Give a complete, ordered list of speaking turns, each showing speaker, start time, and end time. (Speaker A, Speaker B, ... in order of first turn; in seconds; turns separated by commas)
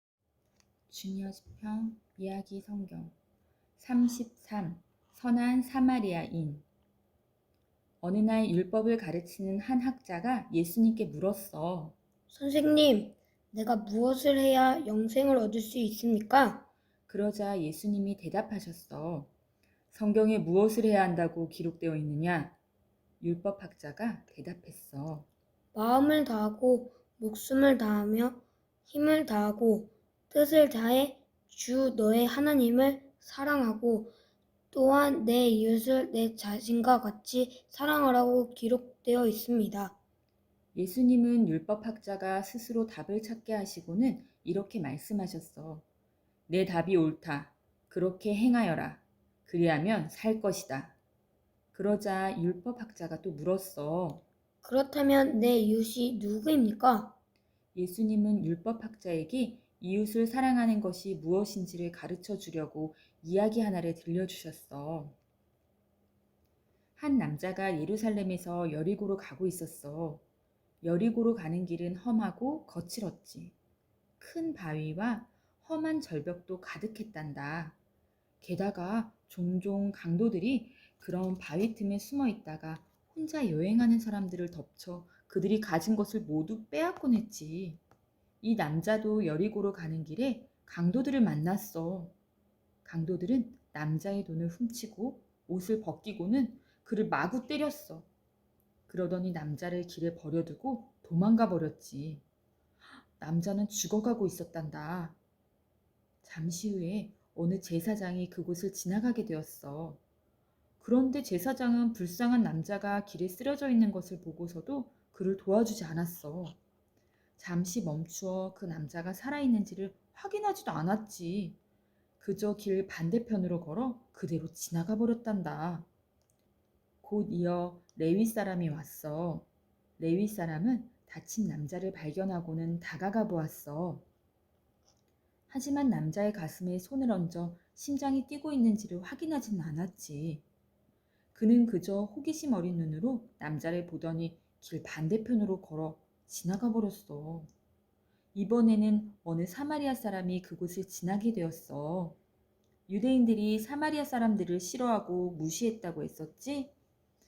Speaker A: 0.9-3.1, Speaker A: 3.8-6.7, Speaker A: 8.0-12.0, Speaker B: 12.3-16.7, Speaker A: 17.1-19.3, Speaker A: 19.9-22.6, Speaker A: 23.2-25.3, Speaker B: 25.7-34.1, Speaker B: 34.7-40.0, Speaker A: 40.7-45.9, Speaker A: 46.5-51.0, Speaker A: 51.7-54.2, Speaker B: 54.6-57.1, Speaker A: 57.8-65.2, Speaker A: 67.0-70.2, Speaker A: 70.8-73.5, Speaker A: 74.2-77.8, Speaker A: 78.4-87.8, Speaker A: 88.4-92.2, Speaker A: 92.8-98.1, Speaker A: 98.9-102.2, Speaker A: 103.2-105.2, Speaker A: 106.2-110.0, Speaker A: 110.8-116.6, Speaker A: 117.4-121.6, Speaker A: 122.2-125.9, Speaker A: 127.0-129.5, Speaker A: 130.0-134.1, Speaker A: 135.5-140.4, Speaker A: 141.3-147.5, Speaker A: 148.3-152.2, Speaker A: 152.9-156.7